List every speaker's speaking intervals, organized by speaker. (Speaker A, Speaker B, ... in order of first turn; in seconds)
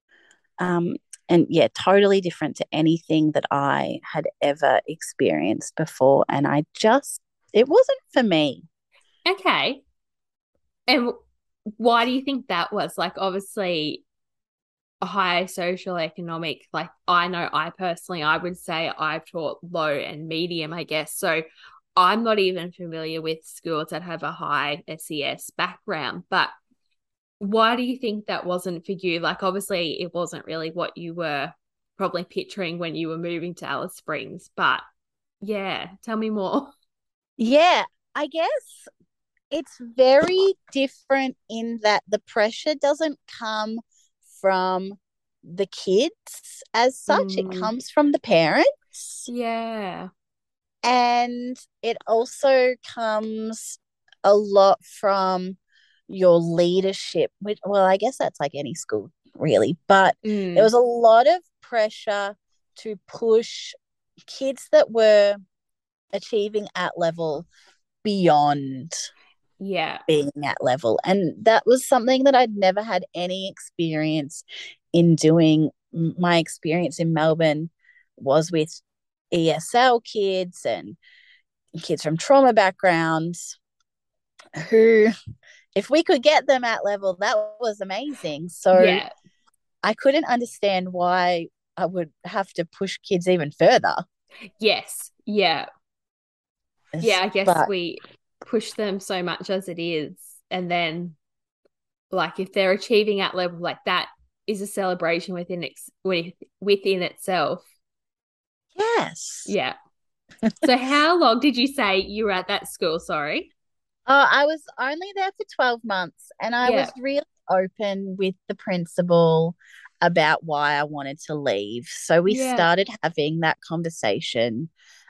Speaker A: 0.6-8.6, 37.4-38.9, 39.5-43.8, 44.4-49.3, 50.8-55.6, 56.1-63.8, 64.3-65.4, 66.1-67.5, 68.0-69.0, 70.1-74.4, 74.9-81.0, 81.8-83.4, 84.6-85.1, 85.8-89.0, 89.8-94.0, 97.0-97.7, 108.8-109.5, 114.1-124.7
Speaker B: 9.3-9.8, 10.9-11.2, 11.8-14.0, 15.0-21.4, 22.0-26.5, 27.4-34.8, 35.4-36.7, 47.1-47.7, 49.3-50.1, 60.2-60.7, 69.6-70.0, 88.7-89.1, 94.6-95.7, 97.0-101.2, 102.1-107.7, 109.5-109.8, 110.6-113.5, 116.6-116.9, 122.3-122.7